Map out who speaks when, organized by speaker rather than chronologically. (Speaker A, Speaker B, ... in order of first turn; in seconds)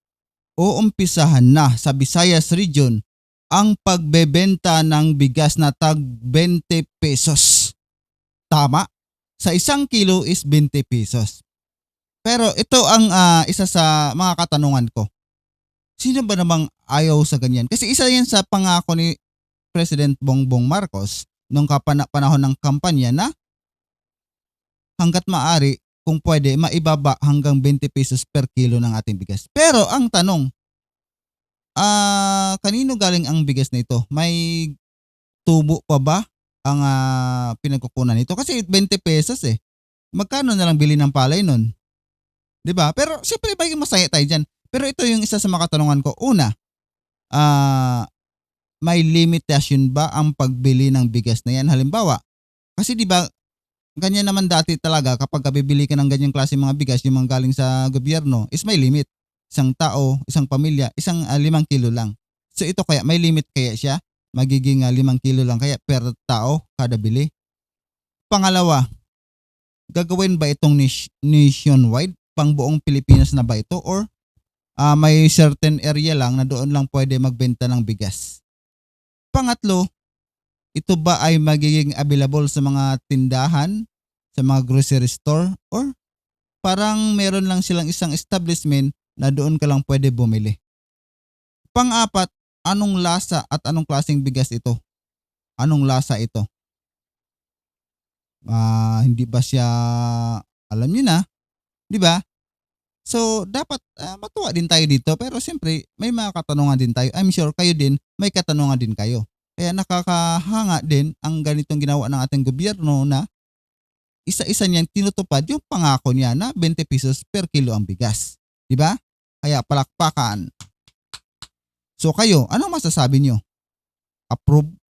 Speaker A: 0.6-3.0, 3.5-7.5, 8.5-8.8, 9.4-11.4, 12.2-15.1, 16.0-19.1, 19.7-23.3, 25.0-30.4, 31.8-34.4, 35.5-39.5, 40.2-41.6, 42.6-46.5, 47.4-48.0, 48.9-52.2, 52.8-53.2, 54.0-67.3, 68.3-68.8, 69.9-74.0, 74.8-78.4, 79.3-79.8, 80.8-83.7, 84.3-85.9, 86.6-90.5, 91.7-94.7, 95.6-96.4, 98.5-101.2, 101.9-102.2, 103.0-113.2, 114.3-118.9, 119.4-120.4, 122.0-123.4, 124.3-124.6